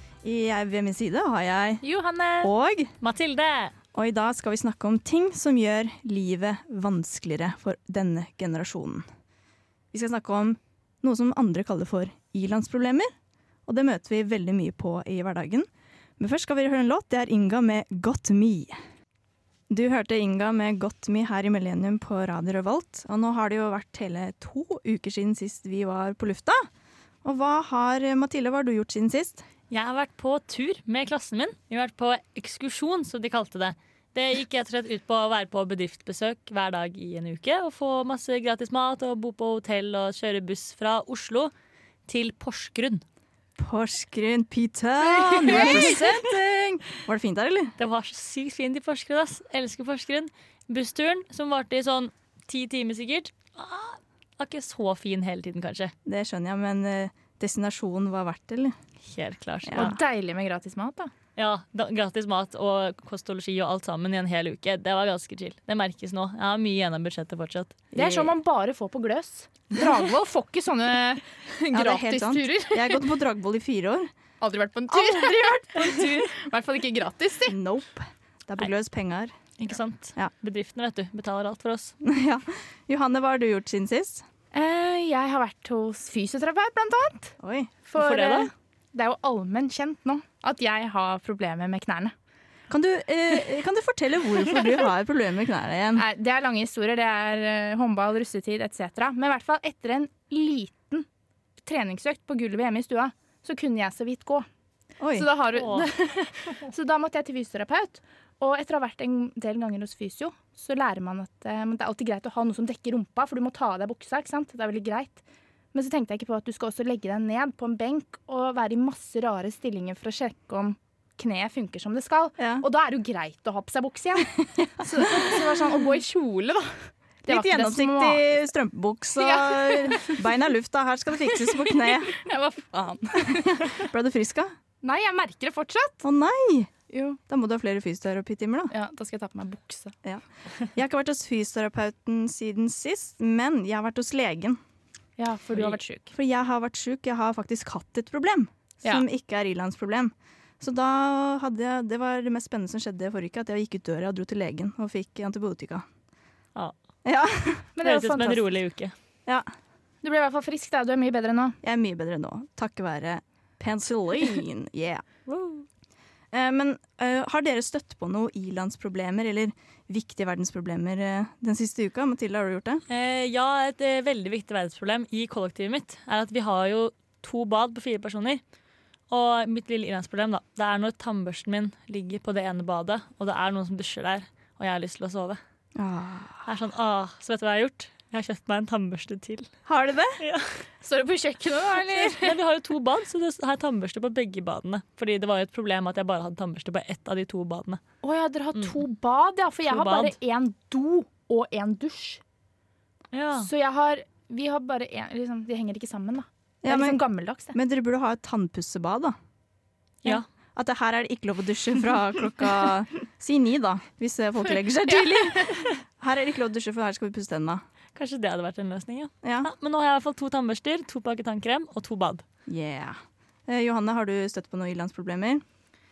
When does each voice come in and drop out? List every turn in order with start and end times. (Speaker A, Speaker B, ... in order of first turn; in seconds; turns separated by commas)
Speaker A: 0.2-1.8, Speaker B: 1.8-2.5, Speaker A: 2.4-2.9, Speaker C: 3.0-3.7, Speaker A: 3.9-9.1, Speaker A: 9.9-13.1, Speaker A: 13.7-15.7, Speaker A: 16.2-18.8, Speaker A: 19.7-26.6, Speaker A: 27.2-29.4, Speaker C: 29.7-41.5, Speaker C: 42.1-43.0, Speaker A: 43.6-47.7, Speaker B: 45.4-45.9, Speaker C: 45.5-46.0, Speaker C: 47.8-55.9, Speaker A: 56.0-58.8, Speaker C: 59.0-59.9, Speaker A: 59.7-60.0, Speaker B: 59.7-61.1, Speaker C: 61.4-67.9, Speaker B: 67.9-73.1, Speaker A: 68.0-68.3, Speaker A: 71.7-74.1, Speaker B: 74.4-77.6, Speaker A: 74.9-76.3, Speaker A: 77.5-79.3, Speaker C: 79.6-82.0, Speaker A: 82.0-84.2, Speaker B: 84.5-87.3, Speaker A: 87.4-87.7, Speaker B: 87.9-92.1, Speaker C: 88.0-88.5, Speaker A: 92.7-96.0, Speaker B: 96.0-101.1, Speaker B: 101.6-104.5, Speaker A: 105.0-105.3, Speaker B: 105.1-115.2, Speaker C: 105.5-105.9, Speaker B: 115.7-128.4, Speaker A: 122.4-122.6, Speaker A: 124.8-125.5, Speaker A: 127.3-132.2, Speaker B: 129.2-130.3, Speaker B: 131.3-133.9, Speaker A: 133.3-134.5, Speaker B: 134.8-136.0, Speaker A: 136.0-136.7, Speaker B: 136.9-137.2, Speaker A: 137.3-138.7, Speaker B: 138.7-139.9, Speaker A: 140.7-144.6, Speaker B: 145.2-146.1, Speaker A: 146.1-155.8, Speaker A: 157.1-157.7, Speaker B: 157.8-158.4, Speaker C: 157.8-158.9, Speaker B: 160.0-161.6, Speaker A: 161.6-165.1, Speaker C: 165.3-165.7, Speaker A: 166.3-172.8, Speaker C: 172.9-178.4, Speaker C: 179.1-185.4, Speaker A: 185.8-186.5, Speaker C: 186.5-189.5, Speaker A: 189.7-190.2, Speaker C: 190.2-190.6, Speaker B: 190.8-192.4, Speaker C: 192.0-197.8, Speaker B: 198.0-202.2, Speaker C: 199.7-200.2, Speaker C: 203.1-203.5, Speaker B: 203.3-207.6, Speaker A: 206.6-207.0, Speaker A: 207.5-209.2, Speaker A: 210.6-217.6, Speaker C: 217.9-222.2, Speaker A: 219.2-219.5, Speaker A: 222.5-225.4